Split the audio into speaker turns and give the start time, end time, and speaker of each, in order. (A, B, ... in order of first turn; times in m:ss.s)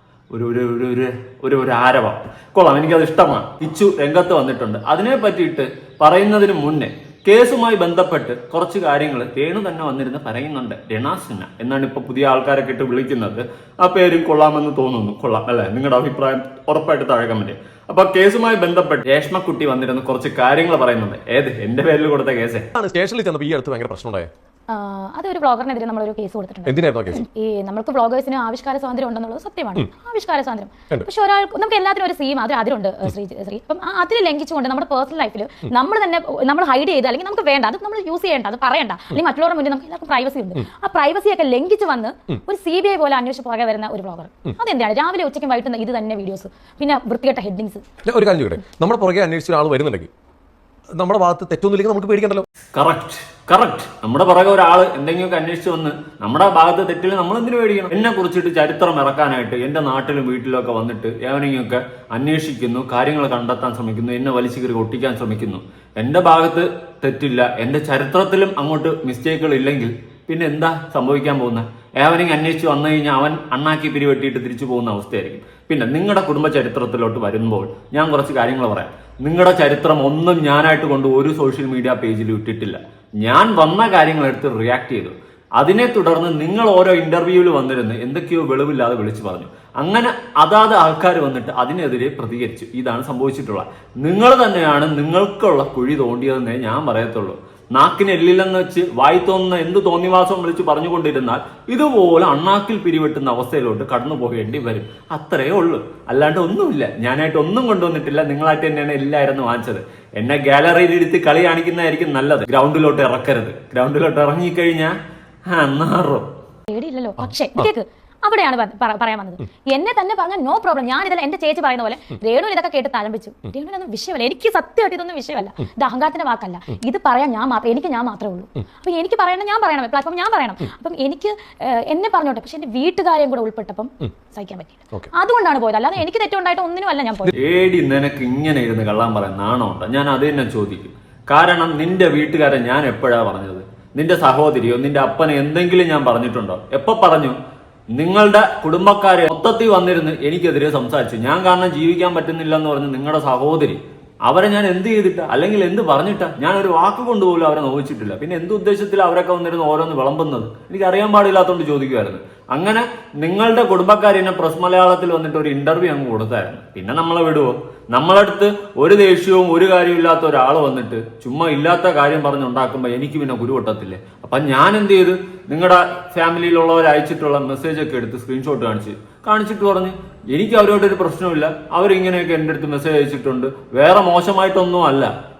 0:00.3-0:22.7 A
0:22.7-0:24.3 B
0:24.7-0:47.8 C
0:26.6-0:27.2 B
0:48.0-0:50.1 B
0:50.9-0:52.4 B
0:52.7-1:54.9 A
1:55.5-1:56.3 A
1:56.7-2:17.3 C
1:57.2-1:57.7 B
2:17.4-2:27.4 A
2:28.0-3:05.1 A